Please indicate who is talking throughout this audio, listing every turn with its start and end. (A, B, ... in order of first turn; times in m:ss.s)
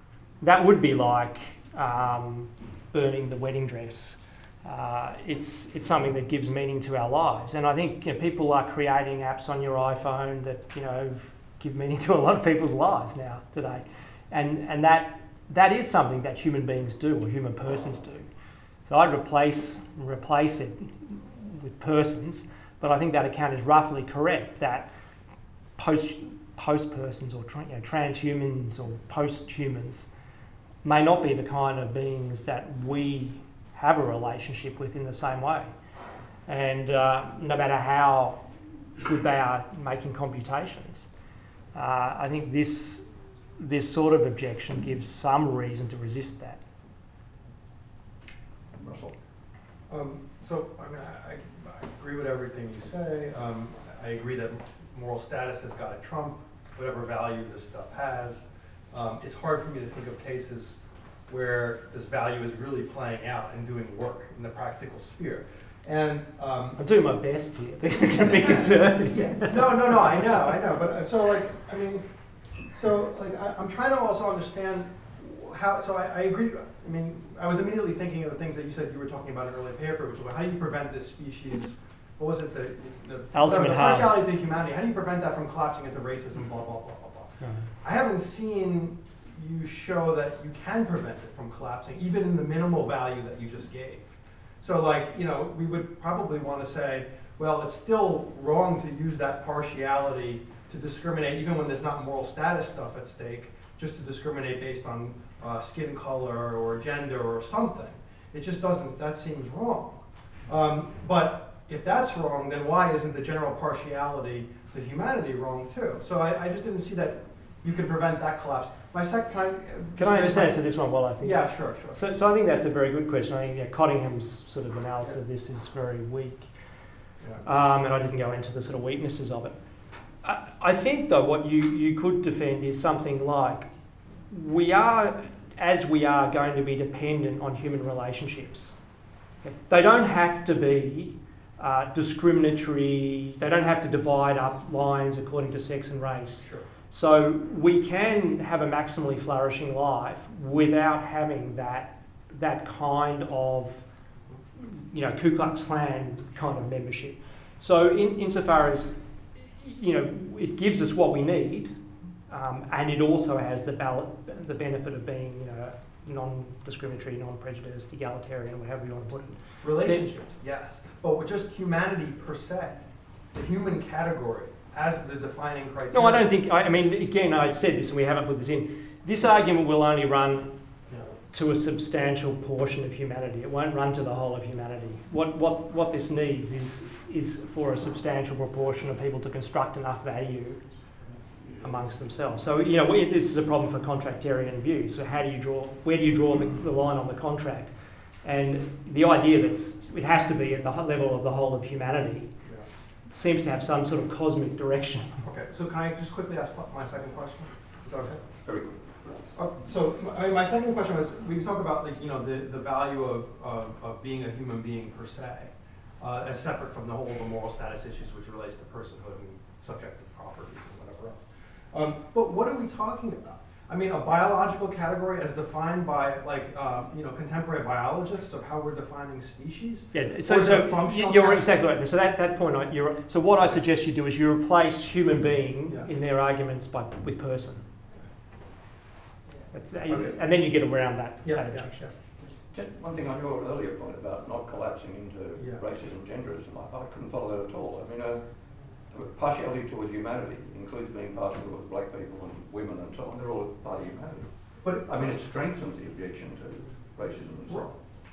0:00.4-0:18.2 A
0:18.8-0:24.9 A
0:25.8-0:30.1 A
0:30.8-0:35.7 A
0:36.5-0:38.4 A
0:39.0-0:41.1 A
0:41.7-0:43.0 A
0:43.6-0:46.6 A
0:48.8-0:49.2 B
0:49.9-1:06.8 C
1:06.8-1:09.8 A
1:08.4-1:12.1 C
1:12.7-2:00.6 C
1:23.3-1:24.2 A
1:27.4-1:27.7 A
2:00.0-2:06.5 A
2:01.2-2:02.0 C
2:07.4-2:09.6 A
2:10.2-2:13.7 A
2:14.3-2:18.8 A
2:19.4-2:33.8 A
2:34.6-2:41.7 A
2:42.3-2:50.0 A
2:49.6-2:52.8 C
2:53.3-2:56.3 C
2:55.9-3:00.5 A
3:01.1-3:10.6 A
3:11.6-3:17.7 A
3:18.2-3:22.3 A
3:23.1-3:25.2 A
3:25.2-3:28.2 C
3:28.4-3:29.1 B
3:29.4-3:51.5 C
3:49.9-3:57.7 A
3:59.5-4:01.9 A
3:59.9-4:00.1 C
4:01.2-4:01.9 C
4:02.2-4:08.2 B
4:08.9-4:17.8 B